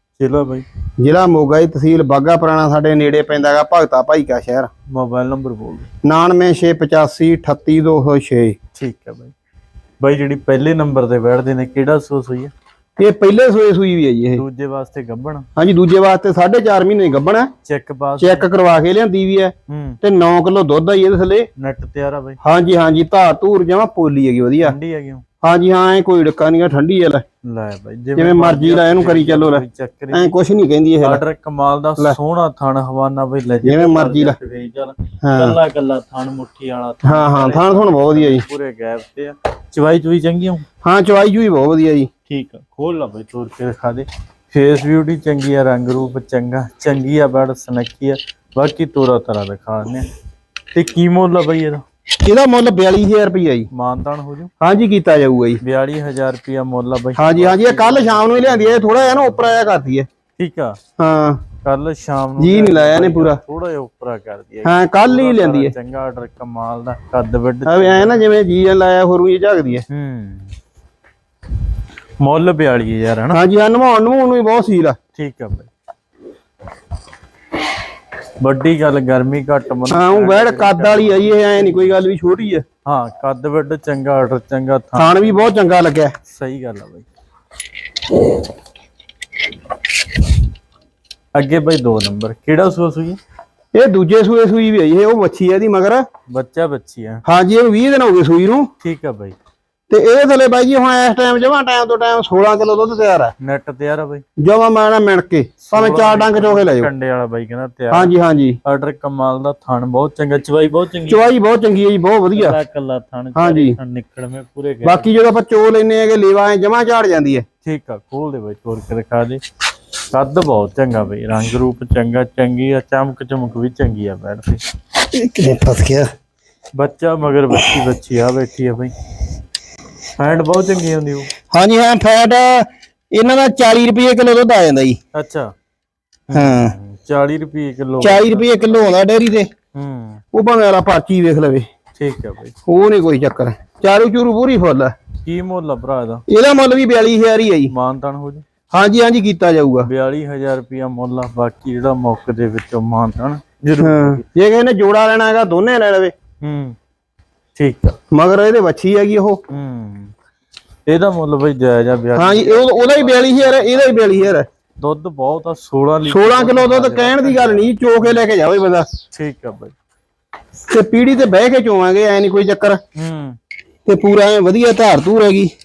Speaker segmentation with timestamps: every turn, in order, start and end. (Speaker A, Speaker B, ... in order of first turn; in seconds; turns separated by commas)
Speaker A: 0.2-0.7, Speaker B: 1.0-4.7, Speaker A: 4.9-5.9, Speaker B: 6.0-8.6, Speaker A: 8.7-9.3, Speaker A: 10.0-12.5, Speaker B: 13.0-14.4, Speaker A: 14.3-15.5, Speaker B: 15.6-17.5, Speaker A: 17.6-18.5, Speaker B: 18.2-21.5, Speaker A: 19.7-20.0, Speaker A: 21.6-22.4, Speaker B: 22.4-24.8, Speaker A: 24.6-25.2, Speaker B: 25.4-27.2, Speaker A: 27.4-30.4, Speaker B: 28.2-31.2, Speaker A: 31.0-40.6, Speaker B: 33.6-34.4, Speaker B: 35.2-35.6, Speaker B: 37.0-38.4, Speaker B: 40.8-42.1, Speaker A: 42.3-50.1, Speaker A: 50.7-51.8, Speaker B: 52.2-53.7, Speaker A: 53.7-54.5, Speaker B: 54.6-55.6, Speaker A: 55.6-59.6, Speaker B: 57.2-60.1, Speaker A: 60.4-60.8, Speaker B: 61.0-61.4, Speaker A: 61.6-68.2, Speaker B: 62.4-63.4, Speaker B: 64.6-65.7, Speaker B: 67.7-69.8, Speaker A: 69.9-70.5, Speaker A: 72.2-73.4, Speaker B: 73.3-75.0, Speaker A: 75.2-75.7, Speaker A: 78.4-81.9, Speaker B: 79.9-82.6, Speaker A: 82.8-85.5, Speaker B: 85.0-86.1, Speaker A: 86.3-87.1, Speaker A: 91.3-93.2, Speaker B: 93.7-96.0, Speaker A: 96.3-97.2, Speaker B: 97.3-98.7, Speaker A: 98.8-99.4, Speaker B: 99.9-103.3, Speaker A: 103.4-104.2, Speaker B: 104.4-106.9, Speaker A: 105.6-108.1, Speaker B: 107.9-108.6, Speaker A: 108.6-111.3, Speaker B: 111.1-112.6, Speaker A: 112.3-115.1, Speaker B: 113.4-113.8, Speaker B: 114.8-117.5, Speaker A: 117.6-119.4, Speaker A: 120.1-124.6, Speaker B: 125.1-126.1, Speaker A: 126.8-128.9, Speaker A: 130.2-131.3, Speaker B: 131.5-135.0, Speaker A: 135.1-135.5, Speaker A: 136.3-138.7, Speaker B: 136.3-136.8, Speaker B: 138.0-139.5, Speaker A: 139.7-140.2, Speaker B: 140.3-141.7, Speaker A: 141.9-142.5, Speaker B: 142.7-144.9, Speaker A: 145.2-146.2, Speaker B: 146.3-147.7, Speaker A: 147.7-148.4, Speaker B: 148.7-149.9, Speaker A: 149.8-154.2, Speaker B: 153.8-156.1, Speaker A: 156.4-156.8, Speaker A: 157.6-158.0, Speaker B: 158.1-159.4, Speaker A: 159.5-160.1, Speaker A: 160.9-168.2, Speaker B: 162.2-164.5, Speaker B: 166.1-168.9, Speaker A: 169.1-169.7, Speaker B: 170.7-172.8, Speaker A: 172.9-173.4, Speaker B: 173.9-175.5